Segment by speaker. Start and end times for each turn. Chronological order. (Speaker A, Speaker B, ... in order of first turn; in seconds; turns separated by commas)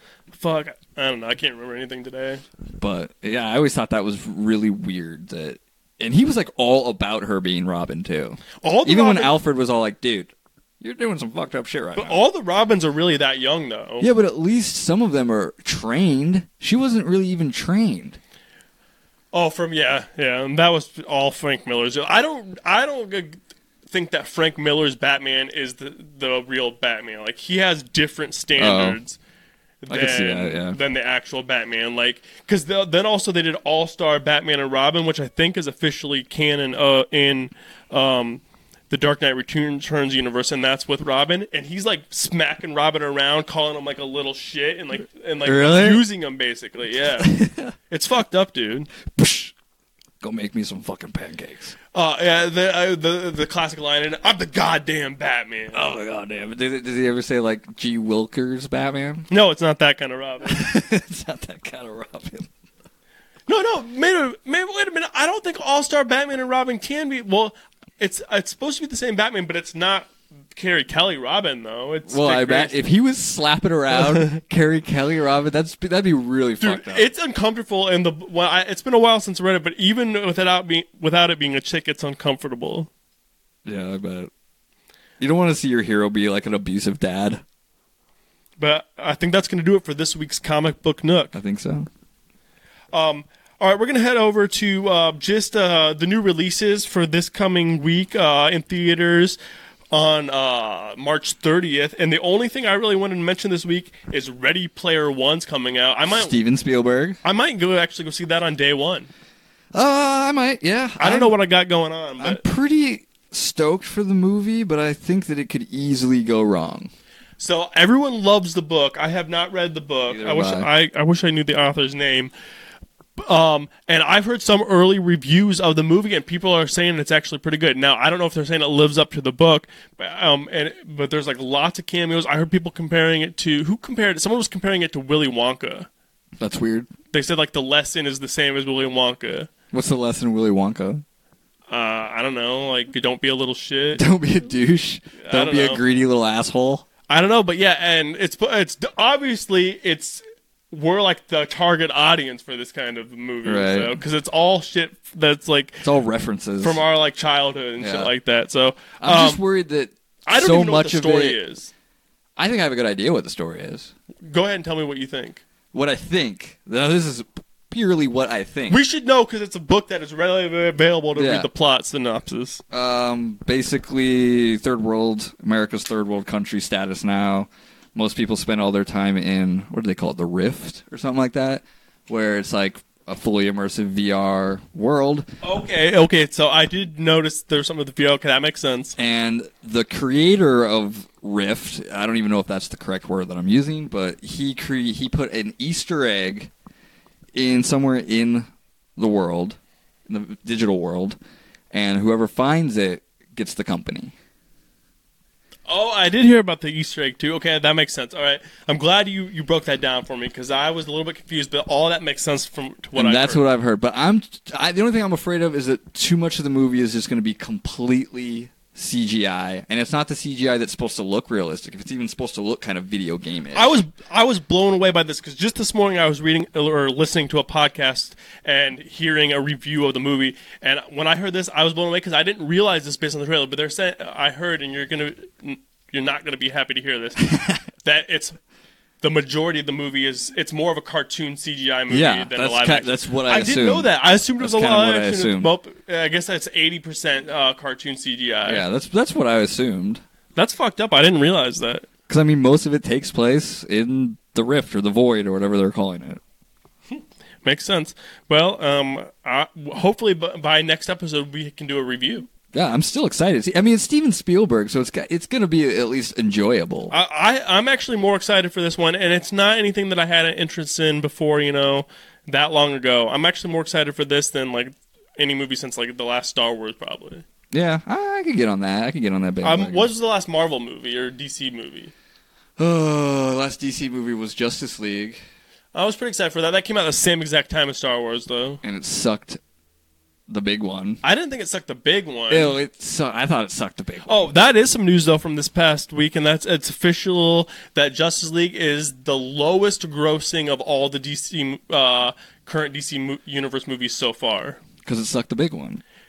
Speaker A: 0.3-2.4, Speaker B: 2.8-12.2, Speaker A: 8.6-9.4, Speaker A: 11.9-14.1, Speaker B: 14.0-18.2, Speaker A: 19.3-23.4, Speaker A: 23.9-29.2, Speaker B: 28.6-29.0, Speaker A: 29.8-47.4, Speaker B: 29.9-30.8, Speaker B: 45.4-46.1, Speaker B: 47.2-47.8, Speaker A: 47.9-48.9, Speaker B: 49.1-49.5, Speaker B: 50.2-51.8, Speaker A: 51.9-55.9, Speaker B: 55.7-59.3, Speaker A: 59.3-60.7, Speaker B: 60.5-62.5, Speaker A: 63.5-72.8, Speaker B: 72.1-77.1, Speaker A: 74.1-74.4, Speaker A: 76.6-82.9, Speaker B: 83.7-84.3, Speaker B: 85.2-87.4, Speaker A: 88.6-91.4, Speaker B: 91.3-91.9, Speaker A: 92.9-99.4, Speaker A: 99.9-106.3, Speaker B: 106.1-107.2, Speaker A: 107.2-109.1, Speaker B: 109.7-111.4, Speaker A: 111.0-112.4, Speaker B: 112.2-116.9, Speaker A: 117.4-122.3, Speaker B: 120.1-120.7, Speaker A: 123.2-135.9, Speaker B: 136.4-136.9, Speaker A: 137.1-139.5, Speaker B: 139.7-141.0, Speaker A: 141.7-144.1, Speaker B: 143.9-146.9, Speaker A: 145.2-145.8, Speaker A: 147.1-155.8, Speaker B: 153.4-154.0, Speaker B: 155.8-156.8, Speaker A: 156.6-159.4, Speaker B: 157.8-158.1, Speaker B: 159.0-161.4, Speaker A: 160.3-161.7, Speaker B: 162.4-163.9, Speaker A: 164.3-165.4, Speaker B: 165.7-168.8, Speaker A: 168.7-172.6, Speaker B: 171.1-171.5, Speaker B: 172.7-185.3, Speaker A: 185.4-189.0, Speaker B: 189.0-196.5, Speaker B: 197.3-201.2, Speaker B: 201.7-204.1, Speaker A: 205.7-213.4, Speaker B: 212.9-223.8, Speaker A: 223.5-237.3, Speaker B: 237.3-237.6, Speaker A: 237.8-238.4, Speaker A: 239.0-248.7, Speaker B: 241.9-245.6, Speaker B: 248.5-250.0, Speaker A: 250.3-251.9, Speaker B: 252.1-256.2, Speaker A: 256.9-262.3, Speaker B: 262.5-267.0, Speaker A: 266.9-277.2, Speaker B: 277.5-279.9, Speaker A: 279.4-281.9, Speaker B: 282.6-285.2, Speaker A: 285.7-288.6, Speaker B: 288.6-289.4, Speaker B: 290.3-291.0, Speaker A: 291.0-292.6, Speaker B: 292.3-294.3, Speaker A: 294.1-304.6, Speaker B: 304.8-305.8